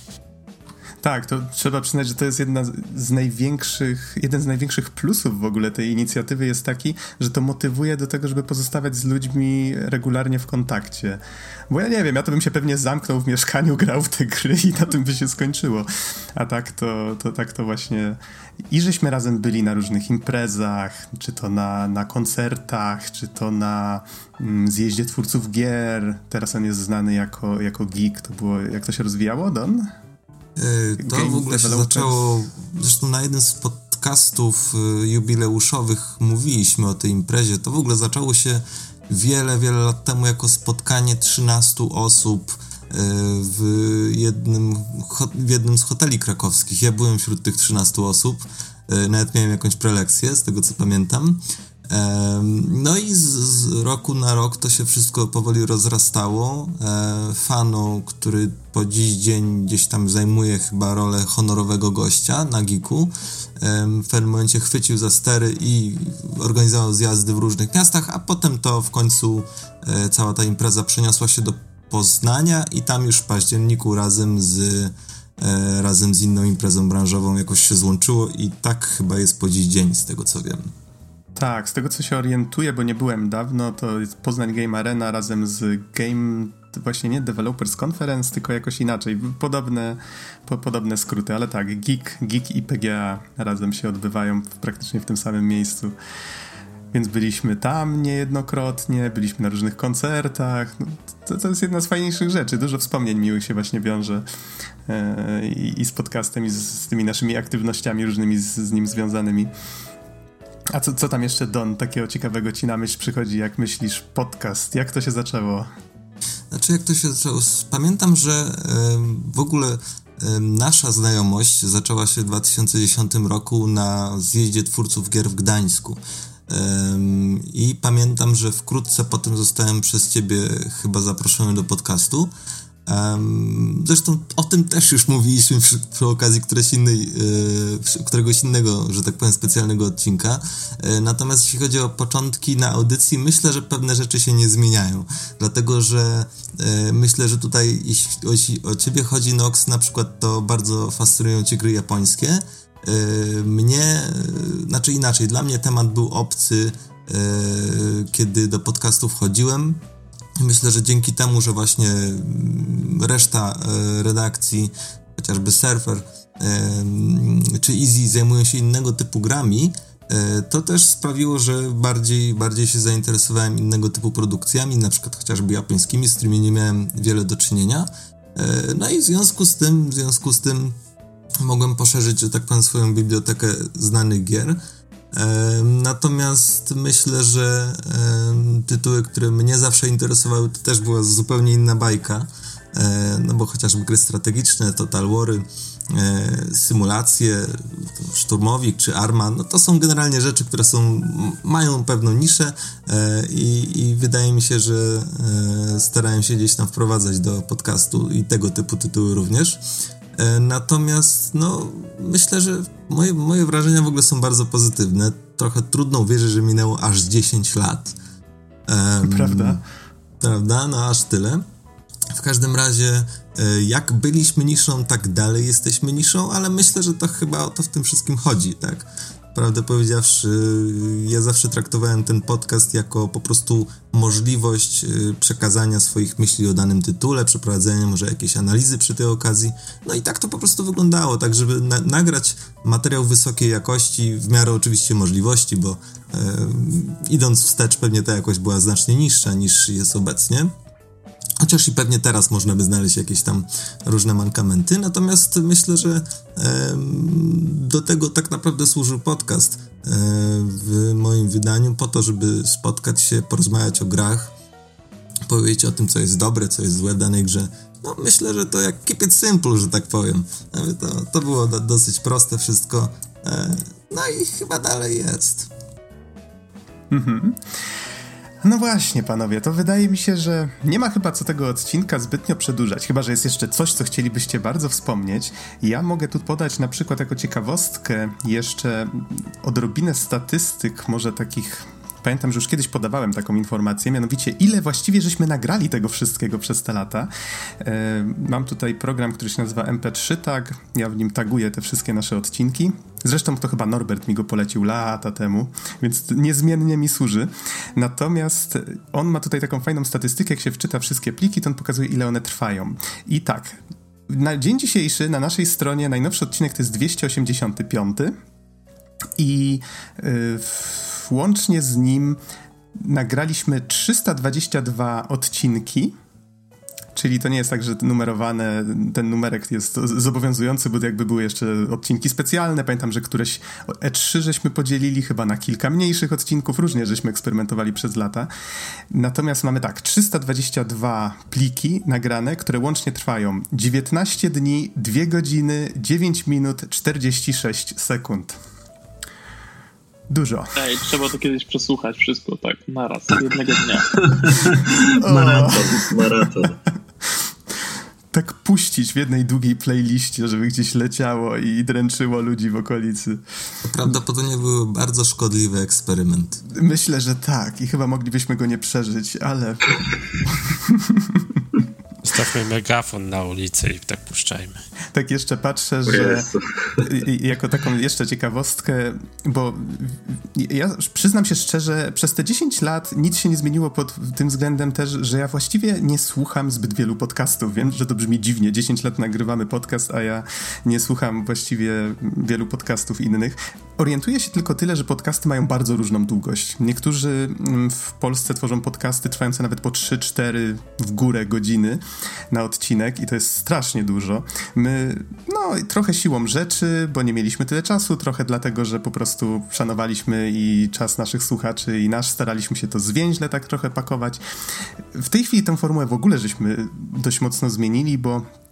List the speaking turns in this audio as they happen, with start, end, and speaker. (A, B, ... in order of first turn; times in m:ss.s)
0:01.0-0:18.2 A
0:18.7-0:29.9 A
0:30.6-1:20.7 B
0:31.0-0:32.3 A
1:21.4-1:35.9 A
1:36.9-1:44.2 A
1:44.9-1:49.5 A
1:50.7-1:55.7 A
1:56.5-2:12.3 B
2:12.9-2:39.8 B
2:40.4-3:00.8 B
3:01.4-3:04.6 B
3:05.1-3:29.6 B
3:30.2-3:37.9 B
3:38.7-3:39.6 B
3:39.0-3:39.6 A
3:40.2-3:41.4 B
3:42.1-4:10.5 B
4:11.4-4:24.3 B
4:25.3-4:35.5 B
4:36.9-4:37.4 A
4:38.4-5:18.1 A
5:19.2-5:22.2 A
5:22.8-5:25.9 A
5:26.9-5:38.3 A
5:38.9-5:48.4 A
5:50.1-5:50.6 A
5:50.6-5:53.9 C
5:53.8-5:56.6 D
5:55.0-5:56.1 A
5:58.1-6:03.2 A
6:03.6-6:06.4 B
6:06.6-6:11.4 A
6:12.0-6:14.6 E
6:14.9-6:16.3 A
6:15.8-6:16.9 D
6:16.8-6:54.2 A
6:54.9-6:58.2 A